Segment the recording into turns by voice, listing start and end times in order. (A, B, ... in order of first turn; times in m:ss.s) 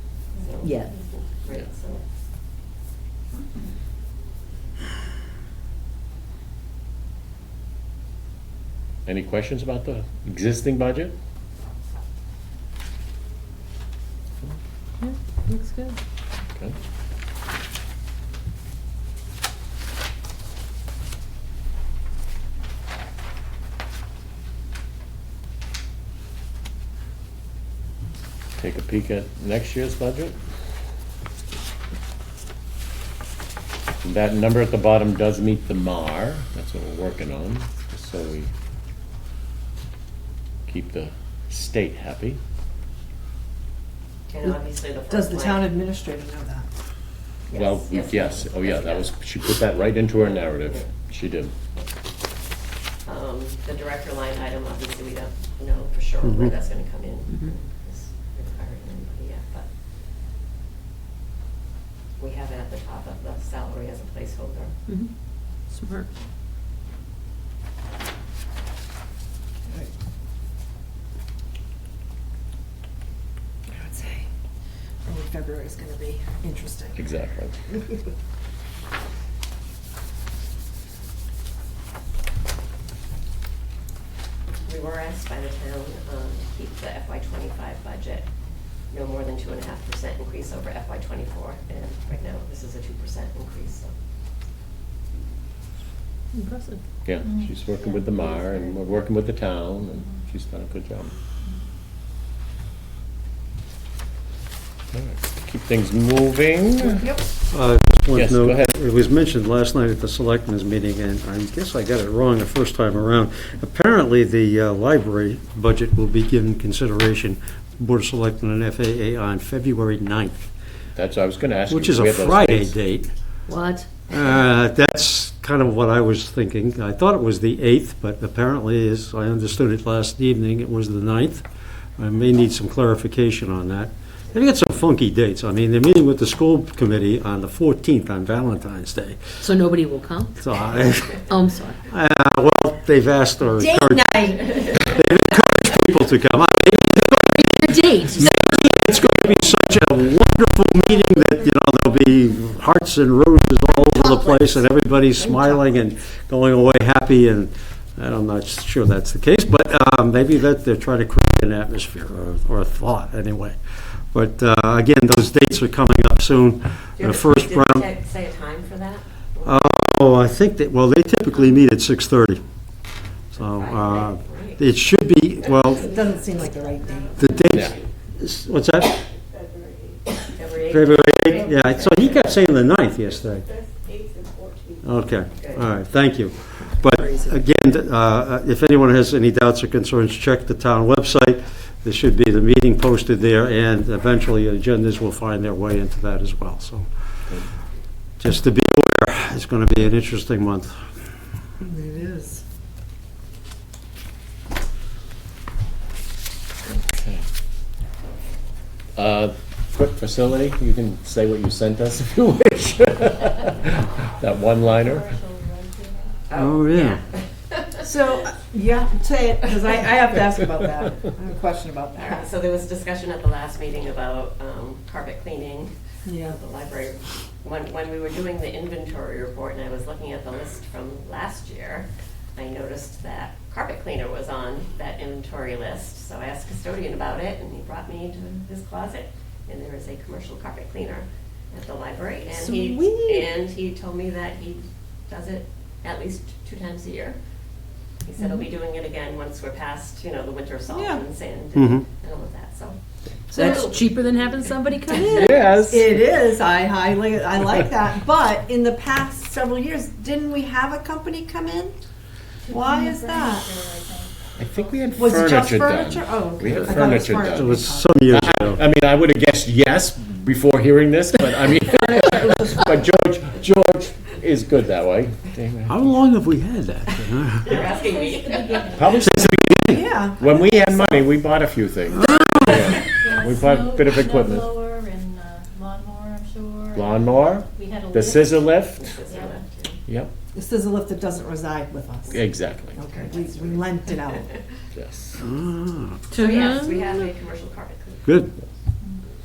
0:00.4-0:02.0 A
0:00.6-0:00.9 B
0:09.0-0:11.1 C
0:15.0-0:16.0 B
0:28.6-0:30.4 C
0:34.0-0:38.5 C
0:40.7-0:42.4 C
0:44.3-0:45.7 A
0:45.1-0:46.7 D
0:47.5-0:49.1 A
0:47.5-0:51.5 C
0:53.0-0:59.7 A
0:56.2-0:56.5 E
1:02.2-1:04.7 A
1:05.7-1:06.1 B
1:13.7-1:14.3 D
1:15.0-1:17.1 D
1:17.0-1:17.5 C
1:24.6-1:28.2 A
1:28.9-1:33.9 A
1:36.3-1:36.8 B
1:37.0-1:41.1 C
1:37.2-1:37.5 F
1:44.9-1:47.1 C
1:46.9-1:47.2 D
1:47.5-2:00.4 E
1:48.1-1:48.7 C
2:00.9-2:02.8 C
2:01.7-2:03.1 E
2:03.5-2:03.9 B
2:04.1-2:11.4 E
2:12.0-2:19.3 E
2:19.4-2:20.4 B
2:20.4-2:21.3 E
2:21.3-2:21.8 B
2:21.9-2:43.6 E
2:23.5-2:24.6 D
2:27.3-2:28.4 B
2:33.8-2:34.5 D
2:44.1-2:47.9 E
2:47.0-2:49.7 A
2:49.4-2:52.4 E
2:53.3-2:56.0 E
2:53.4-2:54.6 A
2:55.7-2:57.2 D
2:57.2-2:59.0 E
2:57.5-2:57.8 C
3:00.3-3:02.2 A
3:00.7-3:03.5 E
3:04.8-3:16.9 E
3:05.4-3:05.6 A
3:06.9-3:07.3 D
3:18.2-3:20.7 E
3:21.6-3:22.4 D
3:26.6-3:27.2 C
3:29.0-3:35.1 C
3:34.6-3:36.1 F
3:36.3-3:37.8 A
3:36.3-3:37.0 E
3:37.8-3:42.3 D
3:42.0-4:07.2 A
3:46.0-3:46.4 D
4:02.3-4:03.3 D
4:08.0-4:12.8 A
4:10.7-4:11.0 D
4:11.5-4:11.8 E
4:13.3-4:15.3 B
4:13.3-4:14.1 A
4:14.9-4:15.9 C
4:15.5-4:21.7 D
4:22.4-4:25.3 F
4:22.5-4:23.4 D
4:24.4-4:35.9 C
4:25.0-4:27.9 D
4:27.2-4:28.6 E
4:32.1-4:32.4 D
4:35.7-4:37.7 E
4:37.4-4:38.9 A
4:37.7-4:39.0 F
4:38.7-4:44.6 C
4:38.9-4:39.8 E
4:39.6-4:41.0 D
4:41.9-4:42.8 E
4:42.9-4:47.0 F
4:46.7-4:48.9 C
4:47.5-4:48.5 F
4:48.8-4:49.8 A
4:50.3-4:52.2 D
4:52.1-4:53.1 C
4:52.7-4:54.3 D
4:53.0-4:54.2 A
4:54.7-4:55.2 C
4:55.2-4:56.0 E
4:56.1-4:57.0 B
4:56.1-4:58.2 A
4:58.0-4:58.3 E